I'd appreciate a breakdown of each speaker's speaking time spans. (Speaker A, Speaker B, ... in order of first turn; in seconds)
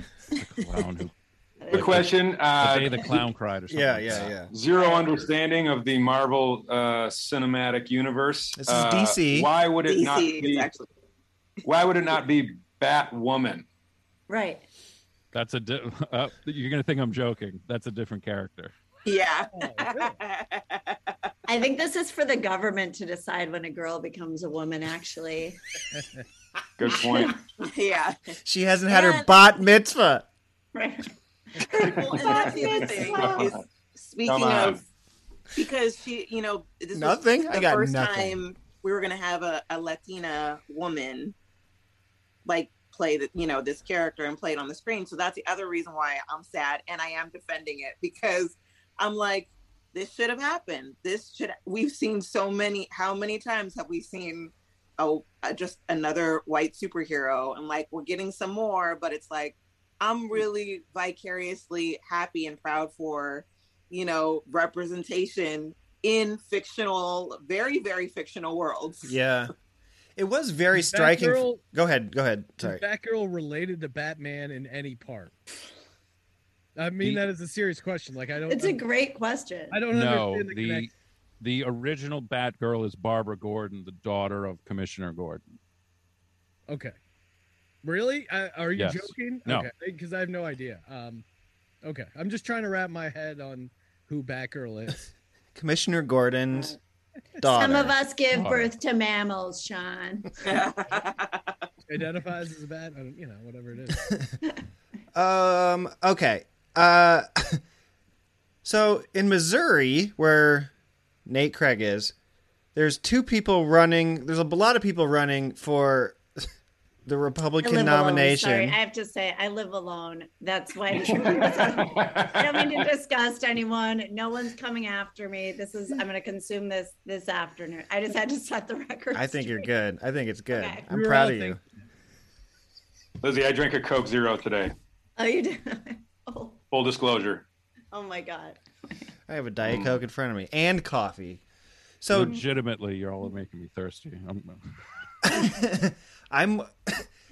Speaker A: 0.4-1.1, 1.7-4.3, 15.3-18.7, 79.9-85.4, 88.7-89.7, 98.3-98.7, 142.1-144.7
Speaker B: 1.6-2.0, 14.3-14.6, 21.5-25.6, 30.7-33.5, 78.5-79.8, 96.5-96.8, 97.4-100.3, 117.6-129.7, 130.5-130.8, 135.2-136.6, 137.9-138.6
Speaker C: 1.7-3.1, 4.5-10.7, 11.6-13.7, 26.8-27.4, 32.3-33.5, 34.2-34.8, 121.1-122.8, 133.2-134.7, 136.7-137.4, 139.6-140.0
Speaker D: 3.7-4.5, 8.6-9.5, 28.4-30.2, 36.9-38.4, 69.0-69.5, 70.2-72.8, 95.5-96.8, 97.4-98.0, 105.1-107.6, 108.6-110.7, 111.2-112.1, 112.7-116.2, 117.0-118.8, 129.1-131.6, 139.3-141.4, 142.0-142.4, 145.2-147.0
Speaker E: 4.8-5.1, 9.8-10.9, 19.1-21.1, 27.6-28.3, 28.9-29.3, 31.7-34.8, 35.5-41.3, 42.4-69.1, 100.4-101.5
Speaker F: 19.5-20.1, 70.7-71.6, 72.6-75.3, 76.8-78.8, 79.7-80.9, 86.7-87.0, 87.8-91.2, 91.8-95.0, 101.9-104.1, 130.9-131.6